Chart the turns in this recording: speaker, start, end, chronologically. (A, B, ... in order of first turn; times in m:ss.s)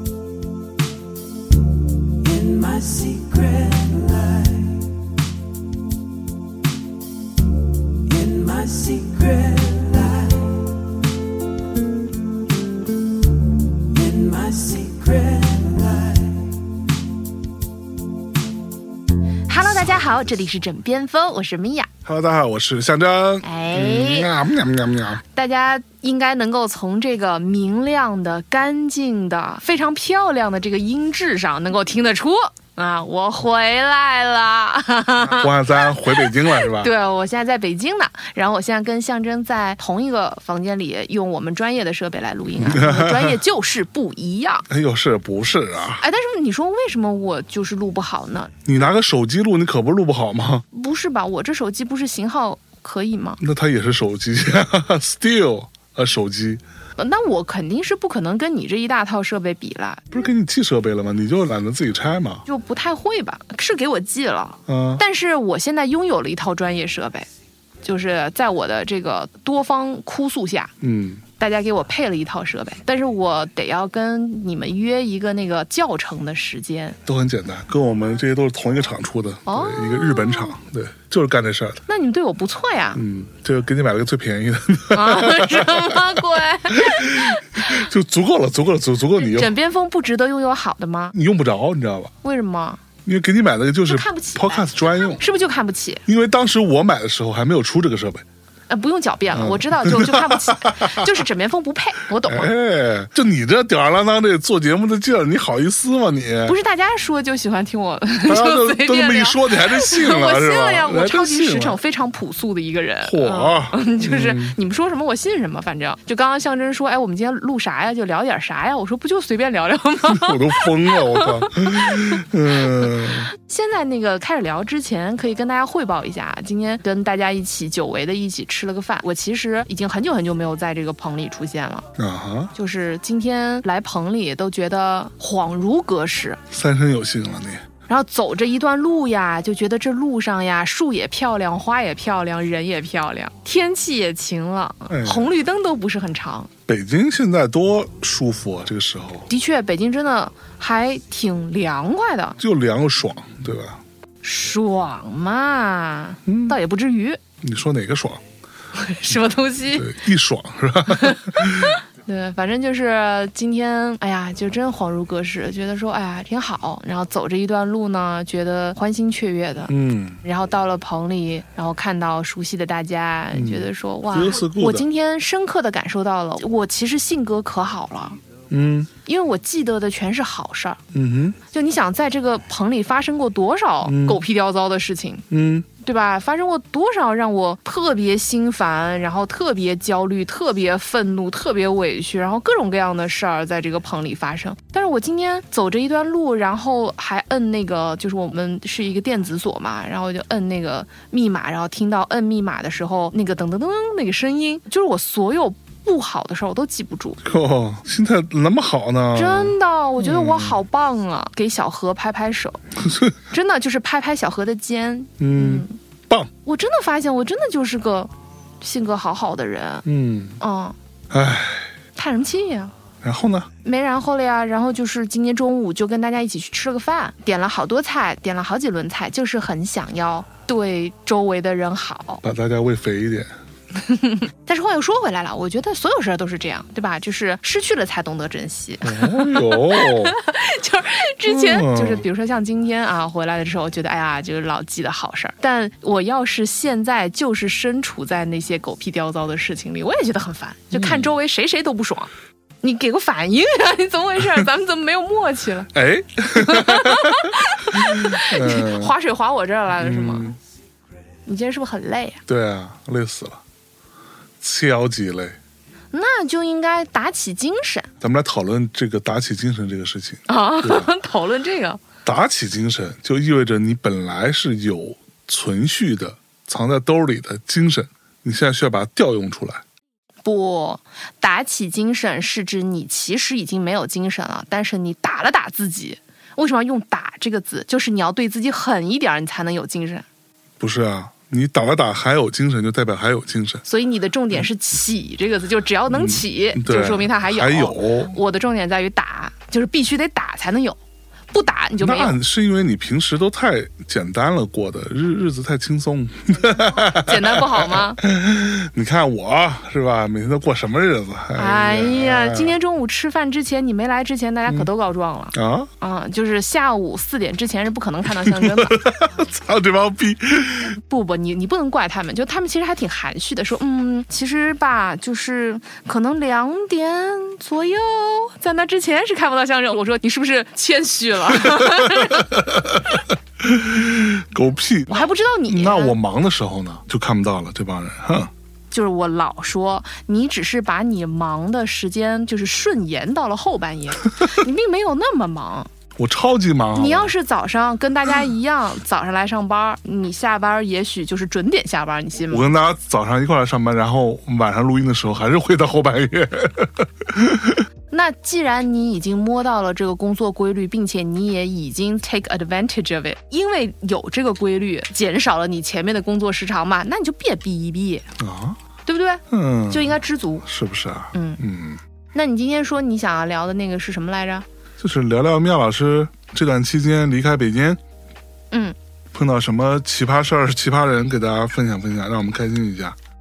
0:02.2-0:04.7 A
0:08.1-0:10.4 A
0:14.0-0:16.3 A
0:19.5-0:21.9 B
0:22.0-0:25.2 C
0:23.4-0:24.3 B
0:25.2-0:44.7 B
0:35.3-0:36.9 C
0:42.6-0:43.4 C
0:44.7-0:46.0 C
0:46.0-0:48.5 B
0:48.6-0:50.6 C
0:50.7-0:53.4 B
0:53.4-0:56.6 C
0:57.0-1:00.0 B
1:00.1-1:02.4 C
1:02.5-1:07.3 B
1:04.7-1:05.0 C
1:07.8-1:10.7 B
1:10.8-1:11.2 C
1:11.4-1:17.0 B
1:17.0-1:21.8 C
1:19.5-1:20.5 B
1:21.9-1:23.0 B
1:22.9-1:29.5 C
1:24.9-1:27.8 B
1:29.2-1:31.2 B
1:31.1-1:32.1 C
1:32.2-1:32.8 B
1:33.0-1:35.2 C
1:33.9-1:36.0 B
1:36.1-1:38.2 C
1:38.7-1:42.5 B
1:39.3-1:41.1 C
1:42.2-1:46.6 C
1:46.4-2:11.9 B
1:48.2-1:51.8 C
1:53.0-1:54.6 C
2:00.1-2:03.3 C
2:12.0-2:12.5 C
2:12.6-2:16.4 B
2:16.5-2:17.6 C
2:17.9-2:26.5 B
2:24.9-2:25.3 C
2:26.7-2:29.3 C
2:29.3-2:32.4 B
2:32.4-2:33.8 C
2:34.2-2:37.2 B
2:36.3-2:36.6 C
2:37.4-2:38.2 C
2:38.7-2:39.9 B
2:39.7-2:41.8 C
2:40.9-2:58.2 B
2:49.7-2:50.2 C
2:53.3-2:54.9 C
2:58.5-2:58.9 C
2:59.0-3:00.8 B
3:00.9-3:01.4 C
3:01.5-3:05.3 B
3:03.8-3:04.2 C
3:05.3-3:05.7 C
3:05.8-3:27.2 B
3:27.2-3:30.6 C
3:29.1-3:32.6 B
3:32.8-3:33.2 C
3:33.3-3:35.8 B
3:35.2-3:36.3 C
3:36.4-3:39.8 B
3:39.8-3:40.4 C
3:40.4-3:40.8 B
3:41.1-3:41.7 C
3:42.0-3:42.7 B
3:43.0-3:43.5 C
3:43.6-3:52.2 B
3:52.2-3:53.3 C
3:53.8-4:12.1 B
3:58.8-4:00.2 C
4:01.2-4:02.0 C
4:10.7-4:11.1 C
4:12.6-4:15.7 B
4:15.7-4:19.0 C
4:16.4-4:20.3 B
4:19.8-4:20.4 C
4:21.3-4:22.2 B
4:22.3-4:23.4 C
4:24.4-4:25.4 C
4:25.9-4:27.9 B
4:28.0-4:30.9 C
4:30.3-4:31.8 B
4:32.0-4:39.6 C
4:40.2-4:50.0 B
4:50.6-4:53.6 C
4:53.6-5:00.8 B
4:55.9-4:58.1 C
5:01.3-5:02.2 B
5:01.8-5:12.6 C
5:06.8-5:08.0 B
5:11.4-5:18.9 B
5:15.3-5:15.7 C
5:18.1-5:20.8 C
5:20.6-5:32.3 B
5:31.4-5:38.3 C
5:34.9-5:36.0 B
5:38.7-5:45.7 B
5:46.0-5:47.1 C
5:46.7-5:52.5 B
5:52.3-5:57.6 C
5:57.9-6:08.1 B
6:08.2-6:08.6 C
6:08.9-6:10.4 B
6:09.3-6:11.8 C
6:11.1-6:11.4 B
6:12.1-6:14.5 B
6:14.8-6:17.8 C
6:19.1-6:23.0 C